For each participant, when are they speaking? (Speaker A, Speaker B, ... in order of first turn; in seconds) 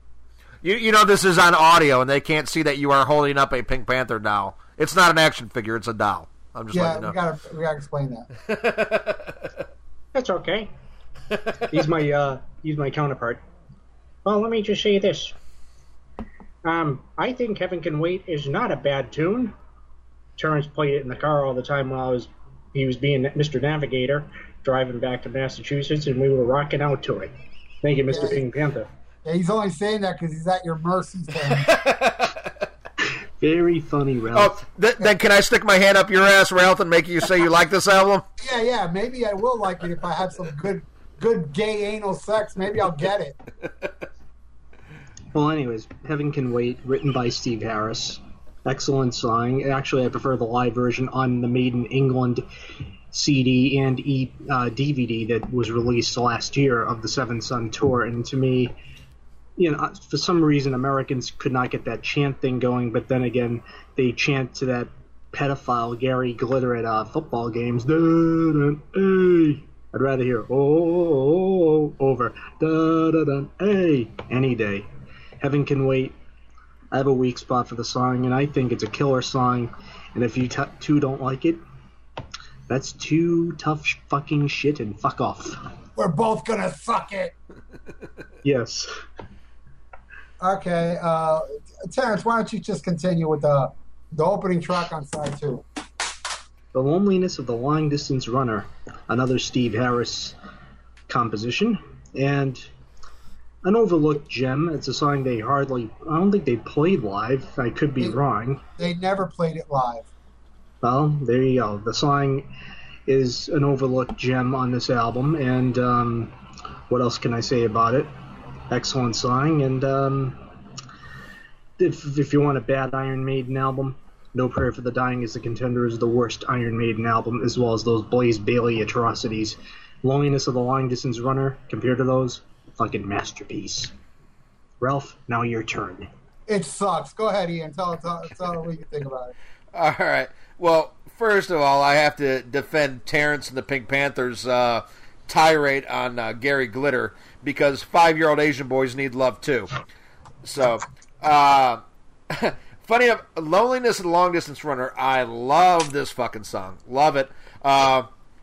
Speaker A: 0.6-7.1, 8.5-9.5, 11.3-11.7, 31.5-32.5, 34.3-38.2, 139.7-149.7, 150.4-158.1
Speaker B: 6.7-8.3, 28.1-28.4, 29.2-31.7, 38.4-43.4, 86.0-87.3, 90.4-95.6, 108.8-110.1, 136.5-139.3
Speaker C: 10.1-10.7, 11.7-13.4, 14.2-15.4, 16.6-19.5, 20.4-28.9, 33.4-34.5, 45.3-52.4, 53.1-58.8, 59.6-74.9, 75.4-76.1, 76.9-81.6, 82.7-85.6, 88.4-88.9, 96.7-100.3, 101.1-102.7, 103.6-108.6, 110.8-112.5, 113.1-116.3, 116.9-118.1, 118.7-120.4, 121.8-133.9, 134.8-136.1